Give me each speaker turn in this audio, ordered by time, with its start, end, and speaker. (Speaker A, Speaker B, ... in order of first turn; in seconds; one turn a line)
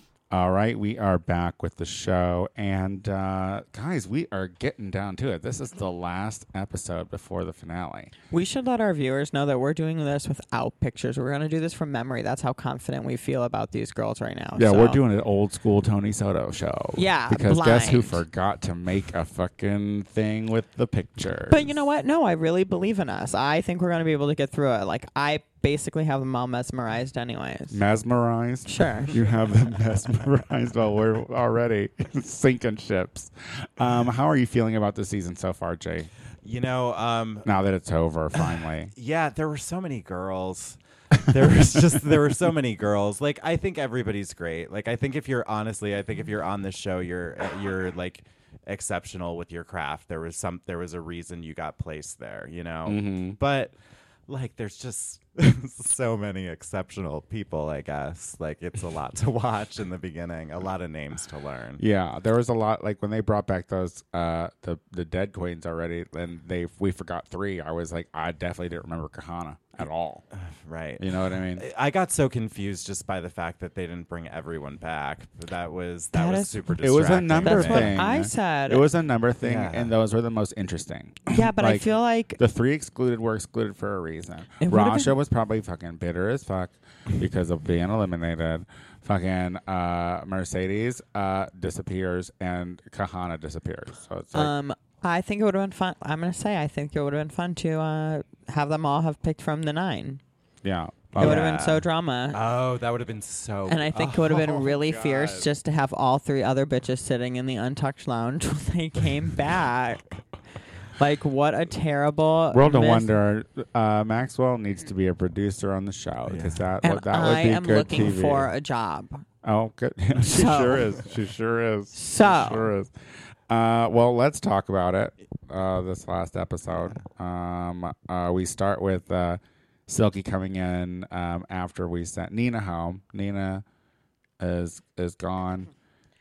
Speaker A: 0.3-8.1
Speaker B: 8.3-15.0
Speaker A: 14.6-21.8
Speaker B: 16.9-18.2
Speaker B: 21.5-27.8
Speaker A: 27.7-36.1
Speaker B: 28.7-29.1
Speaker C: 36.4-37.5
Speaker A: 37.4-38.9
Speaker C: 38.3-53.8
Speaker A: 52.9-53.4
Speaker C: 54.3-61.8
Speaker A: 61.8-70.2
Speaker C: 70.3-78.0
Speaker A: 71.0-71.6
Speaker B: 76.1-76.7
Speaker A: 76.8-94.5
Speaker B: 77.4-78.8
Speaker C: 79.4-79.9
Speaker B: 81.3-82.4
Speaker B: 84.6-85.1
Speaker B: 94.3-100.2
Speaker A: 100.6-101.5
Speaker C: 101.2-105.5
Speaker B: 101.2-102.4
Speaker B: 103.7-110.1
Speaker B: 111.0-113.1
Speaker A: 112.5-118.5
Speaker C: 116.3-116.6
Speaker B: 116.8-119.2
Speaker A: 119.4-122.9
Speaker B: 120.2-120.9
Speaker B: 121.9-122.7
Speaker A: 123.5-133.6
Speaker A: 134.4-135.7